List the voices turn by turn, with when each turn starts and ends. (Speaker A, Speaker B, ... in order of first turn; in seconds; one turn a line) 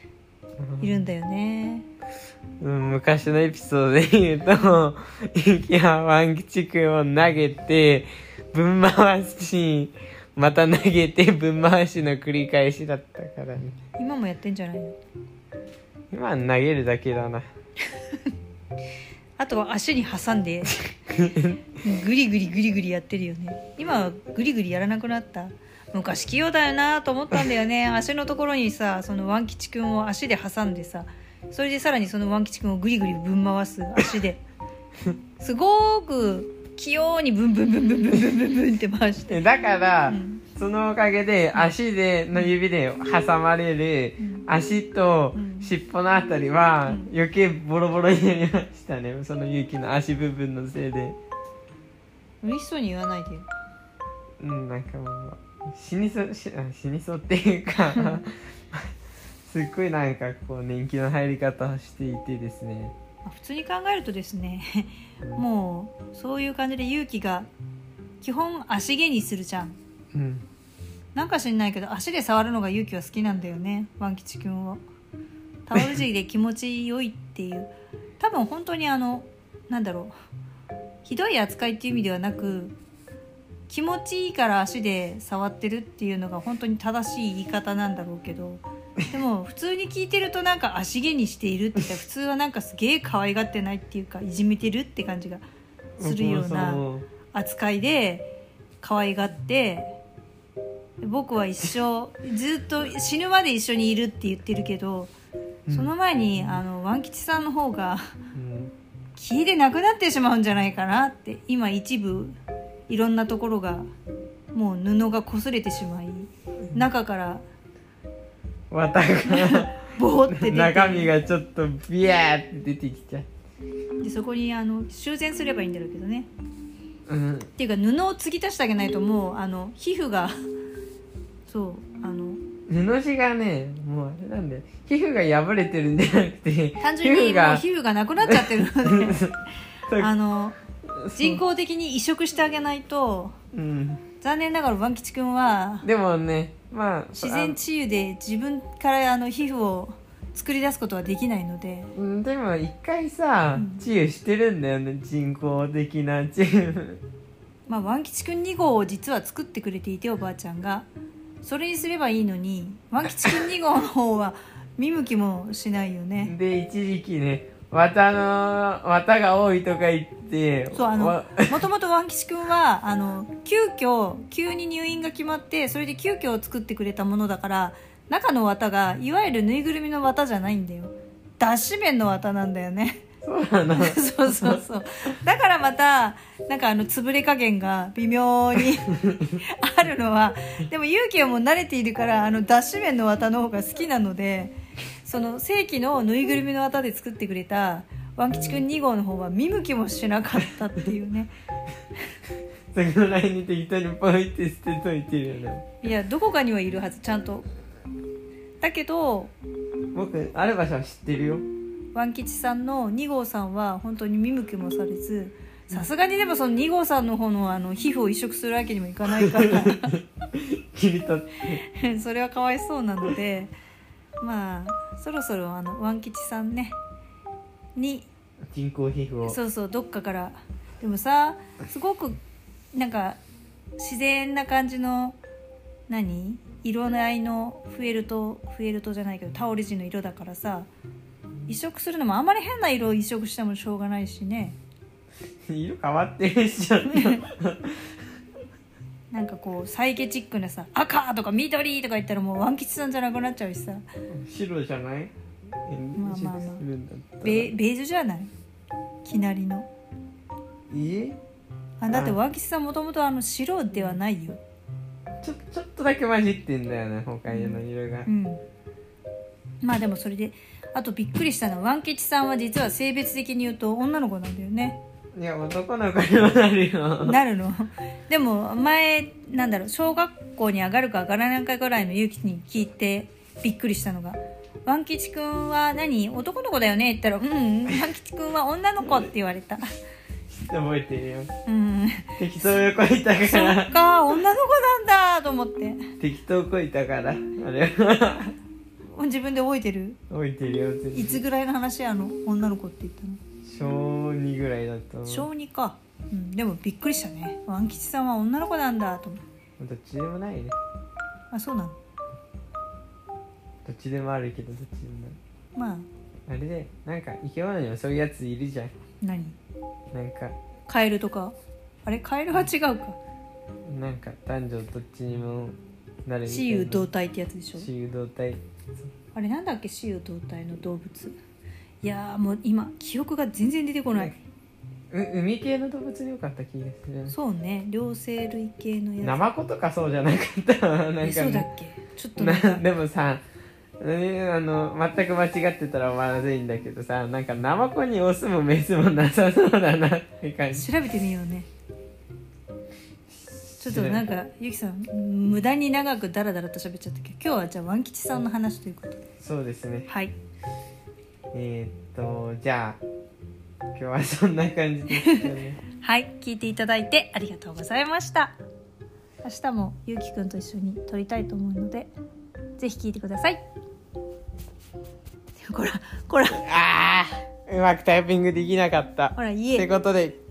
Speaker A: 0.6-1.1
Speaker B: 0.8-1.9
Speaker A: 2.6-13.8
Speaker B: 14.0-15.0
Speaker A: 16.1-17.5
Speaker B: 19.4-20.8
Speaker A: 21.1-21.6
Speaker B: 21.8-34.4
Speaker B: 35.4-39.4
Speaker A: 39.3-51.2
Speaker B: 40.1-40.4
Speaker B: 44.2-44.4
Speaker B: 45.3-45.7
Speaker B: 52.4-53.5
Speaker A: 54.4-58.9
Speaker B: 57.9-58.2
Speaker A: 59.5-62.9
Speaker B: 63.2-67.5
Speaker B: 68.2-69.8
Speaker A: 70.1-70.5
Speaker B: 71.1-74.8
Speaker B: 75.7-80.1
Speaker B: 81.0-82.7
Speaker B: 83.7-95.4
Speaker A: 96.0-97.0
Speaker B: 96.0-100.0
Speaker B: 101.0-105.1
Speaker A: 105.7-105.9
Speaker B: 105.7-108.1
Speaker A: 108.3-108.7
Speaker B: 109.2-112.3
Speaker B: 112.9-113.9
Speaker B: 114.5-117.4
Speaker A: 118.7-123.3
Speaker B: 119.2-121.1
Speaker B: 124.0-126.3
Speaker A: 127.1-127.5
Speaker B: 127.6-130.3
Speaker B: 131.4-132.4
Speaker A: 132.7-137.6
Speaker B: 136.8-139.2
Speaker A: 138.2-139.3
Speaker B: 139.9-140.6
Speaker A: 140.9-141.4
Speaker B: 141.1-143.3
Speaker A: 143.5-144.0
Speaker B: 144.2-145.8
Speaker A: 145.8-147.6
Speaker B: 147.1-151.9
Speaker A: 151.9-157.0
Speaker B: 153.5-153.8
Speaker B: 157.7-160.9
Speaker B: 161.4-166.3
Speaker A: 166.2-171.6
Speaker B: 170.7-183.0
Speaker A: 183.2-184.6
Speaker B: 183.8-201.3
Speaker A: 189.0-189.4
Speaker A: 198.3-198.6
Speaker A: 202.7-205.6
Speaker B: 205.8-207.5
Speaker B: 208.6-209.3
Speaker A: 209.9-211.4
Speaker B: 211.9-220.0
Speaker A: 219.1-221.6
Speaker B: 221.5-223.5
Speaker B: 224.2-226.8
Speaker B: 227.7-228.1
Speaker A: 228.5-229.4
Speaker B: 229.2-232.2
Speaker B: 232.7-233.2
Speaker B: 233.8-235.2
Speaker B: 235.9-240.7
Speaker B: 241.4-244.6
Speaker A: 245.5-247.8
Speaker B: 246.9-247.2
Speaker B: 249.1-253.8
Speaker A: 254.1-257.5
Speaker B: 255.9-256.6
Speaker B: 257.2-258.3
Speaker B: 259.0-259.7
Speaker A: 260.7-261.2
Speaker B: 261.8-264.4
Speaker A: 261.9-262.2
Speaker A: 265.2-268.1
Speaker B: 267.3-268.4
Speaker B: 269.6-274.8
Speaker A: 275.1-277.2
Speaker B: 277.0-289.7
Speaker A: 290.3-291.3
Speaker B: 291.4-292.6
Speaker A: 292.2-293.7
Speaker B: 293.2-295.8
Speaker A: 296.0-298.3
Speaker B: 298.9-300.0
Speaker A: 300.1-301.2
Speaker B: 300.9-303.2
Speaker A: 303.4-305.3
Speaker B: 305.1-309.2
Speaker A: 309.6-310.6
Speaker B: 311.3-311.8
Speaker A: 313.6-315.2
Speaker B: 315.6-315.9
Speaker A: 316.3-318.7
Speaker B: 319.0-319.4
Speaker A: 319.9-320.4
Speaker B: 320.7-323.0
Speaker A: 323.6-326.9
Speaker B: 326.2-327.7
Speaker A: 327.6-328.9
Speaker B: 329.1-331.1
Speaker B: 331.8-334.2
Speaker A: 334.9-337.1
Speaker B: 337.1-339.2
Speaker A: 339.0-341.5
Speaker B: 341.0-342.6
Speaker A: 342.2-343.2
Speaker A: 343.8-350.7
Speaker B: 350.5-351.5
Speaker A: 353.1-354.1
Speaker B: 353.6-359.0
Speaker A: 359.2-359.9
Speaker B: 359.9-360.1
Speaker A: 361.3-362.8
Speaker A: 363.7-365.6
Speaker B: 364.9-368.4
Speaker B: 369.2-371.9
Speaker B: 372.6-373.4
Speaker B: 375.4-376.4
Speaker A: 376.3-380.2
Speaker B: 379.2-379.7